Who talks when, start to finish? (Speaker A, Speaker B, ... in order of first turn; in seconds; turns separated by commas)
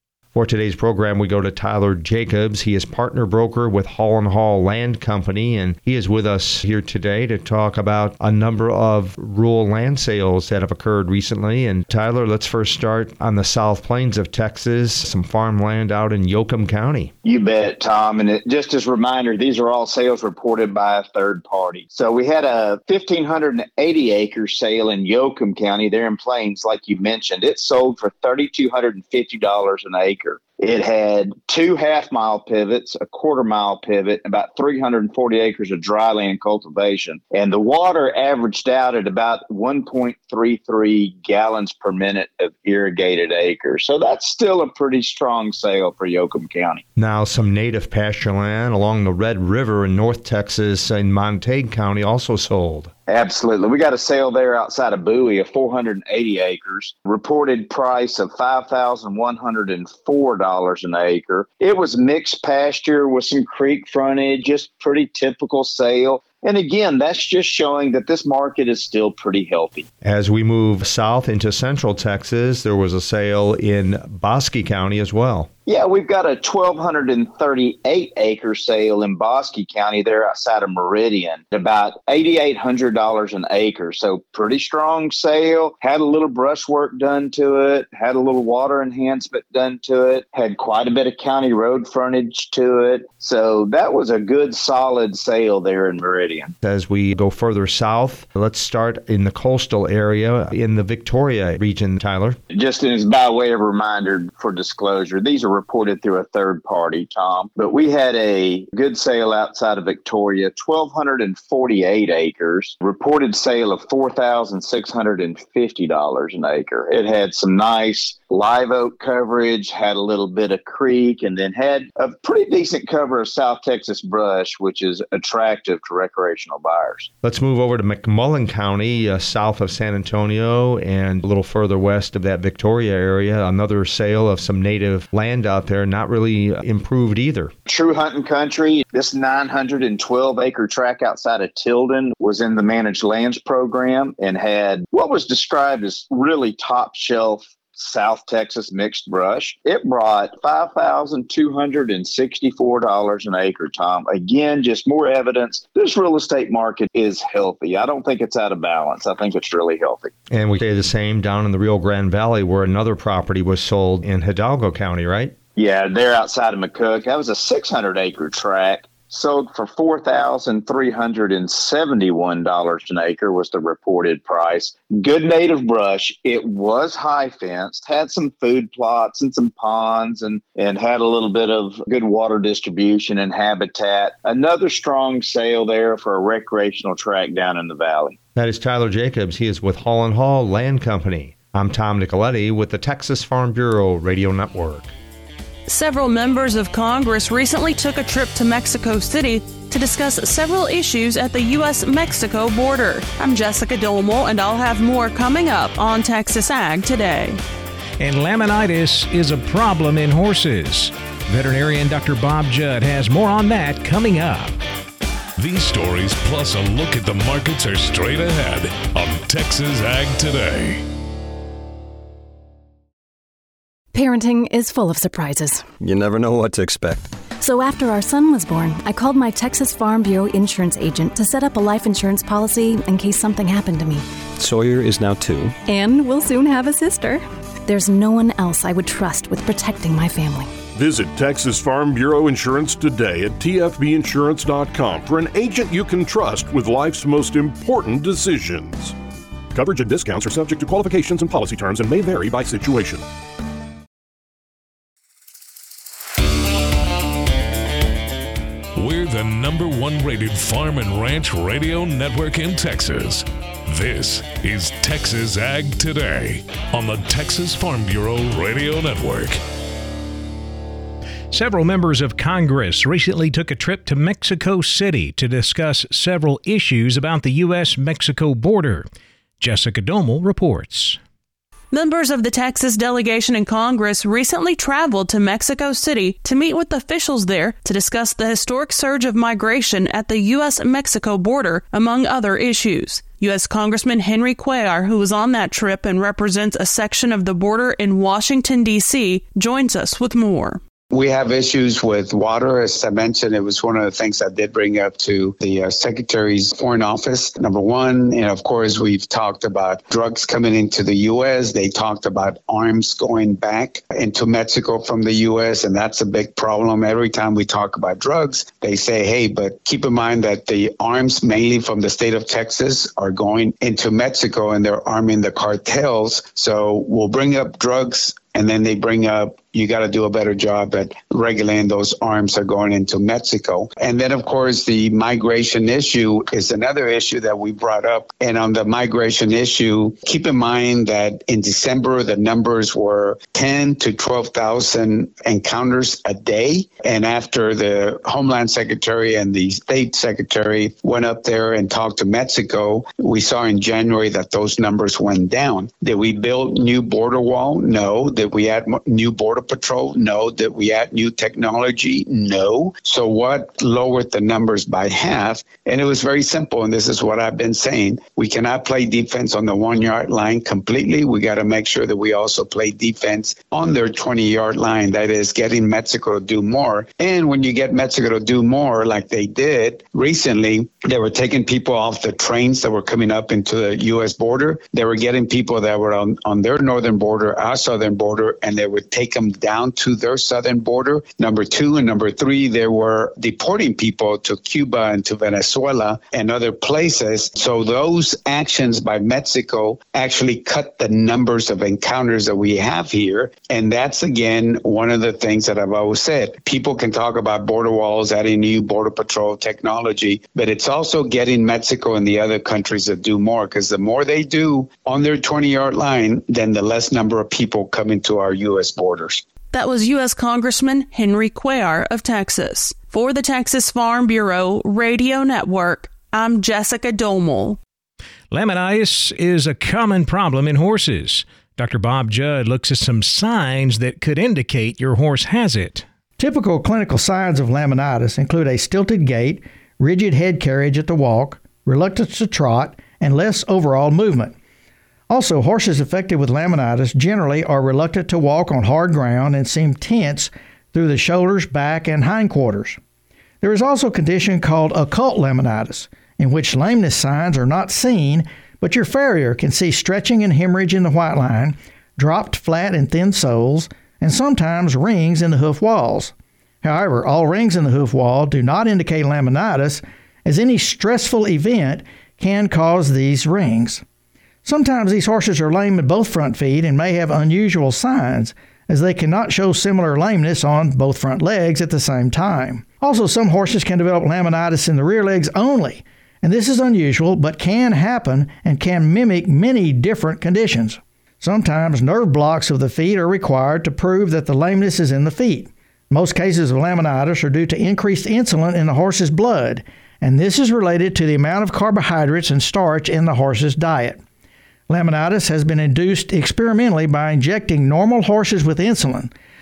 Speaker A: 0.3-17.1, Speaker B: 17.2-46.8, Speaker A: 47.0-52.9, Speaker B: 53.1-69.9, Speaker A: 70.0-75.5, Speaker B: 75.7-96.5, Speaker A: 96.6-102.4, Speaker B: 102.5-127.1, Speaker A: 127.2-137.5, Speaker B: 137.7-160.1, Speaker A: 160.3-165.3, Speaker B: 165.6-188.2, Speaker A: 188.4-194.9, Speaker C: 195.7-207.4, Speaker D: 208.0-214.6, Speaker E: 215.4-220.8, Speaker F: 223.9-225.7, Speaker G: 225.8-227.1, Speaker F: 227.4-234.0, Speaker G: 234.4-235.6, Speaker F: 235.7-240.5, Speaker H: 240.7-248.9, Speaker H: 249.5-253.1, Speaker E: 258.8-269.4, Speaker D: 271.3-278.9, Speaker D: 279.4-281.0, Speaker C: 281.7-300.6, Speaker I: 300.9-419.2, Speaker C: 419.5-427.6, Speaker D: 428.3-435.9, Speaker J: 436.2-444.4, Speaker J: 445.1-452.8, Speaker J: 453.4-473.8, Speaker J: 474.4-504.0, Speaker J: 504.7-509.1